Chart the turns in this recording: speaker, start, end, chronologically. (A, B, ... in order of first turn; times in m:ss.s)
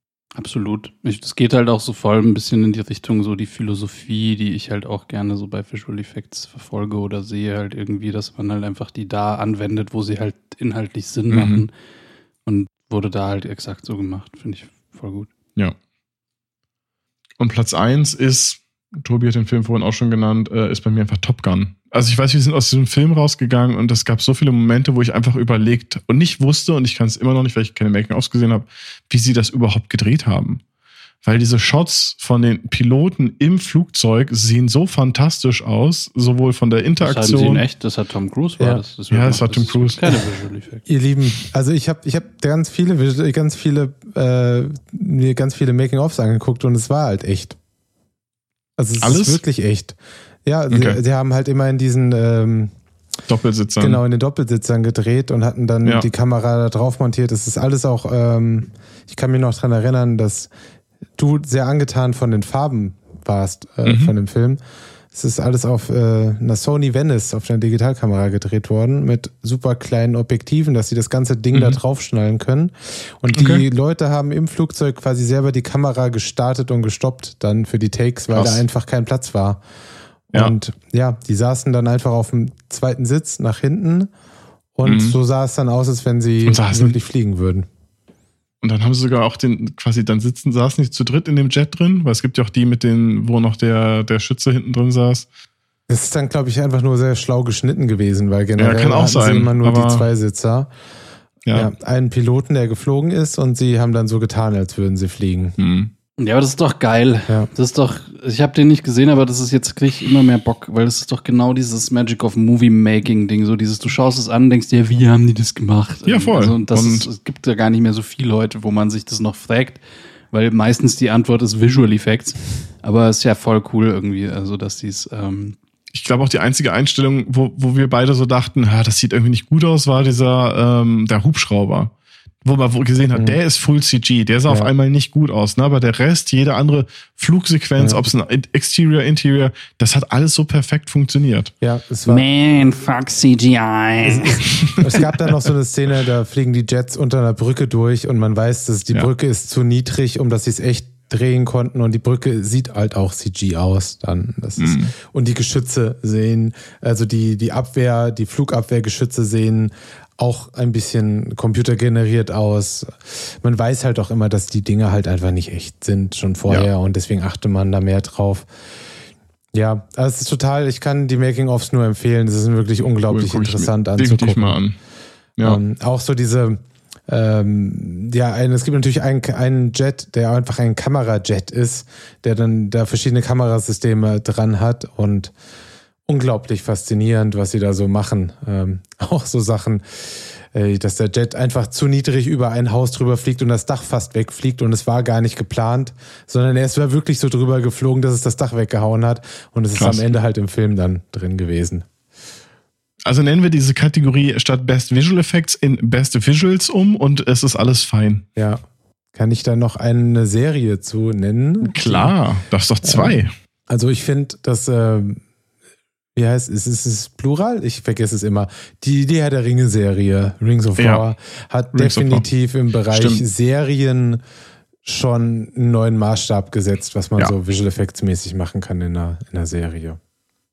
0:00.4-0:11.7 A
0:11.3-0:11.6 B
0:12.4-0:15.3 A
0:17.4-0:30.6 B
0:31.2-0:37.6 B
0:37.0-0:40.8 A
0:39.1-0:40.2 B
0:40.8-0:47.6 C
0:48.8-0:52.7 C
0:49.0-0:49.4 B
0:50.7-0:51.0 B
0:53.3-0:54.0 B
0:53.8-1:00.5 C
1:01.2-1:04.6 C
1:03.8-1:04.1 B
1:05.1-1:19.6 C
1:11.5-1:11.8 B
1:13.3-1:13.6 B
1:18.3-1:18.6 B
1:20.3-1:24.1 C
1:24.8-1:27.7 C
1:24.8-1:25.2 B
1:26.4-1:27.0 B
1:28.6-1:35.3 B
1:35.9-1:40.7 C
1:38.6-1:40.1 B
1:41.5-1:45.6 C
1:45.6-1:45.9 B
1:46.2-1:59.8 A
1:56.0-1:57.1 B
2:00.3-2:05.6 A
2:05.9-2:11.9 B
2:12.4-2:21.5 B
2:21.6-2:22.2 C
2:22.0-2:24.4 A
2:24.0-2:48.5 C
2:34.6-2:34.9 B
2:49.5-2:54.6 C
2:53.1-2:54.8 B
2:55.4-3:05.3 C
3:06.1-3:21.9 C
3:19.7-3:20.1 B
3:23.0-3:28.2 B
3:28.4-3:28.6 C
3:29.1-3:32.1 C
3:31.6-3:33.3 B
3:32.8-3:33.2 C
3:33.7-3:35.2 C
3:36.1-3:44.2 C
3:40.8-3:41.1 B
3:41.7-3:42.2 B
3:42.9-3:43.2 B
3:44.8-3:50.0 C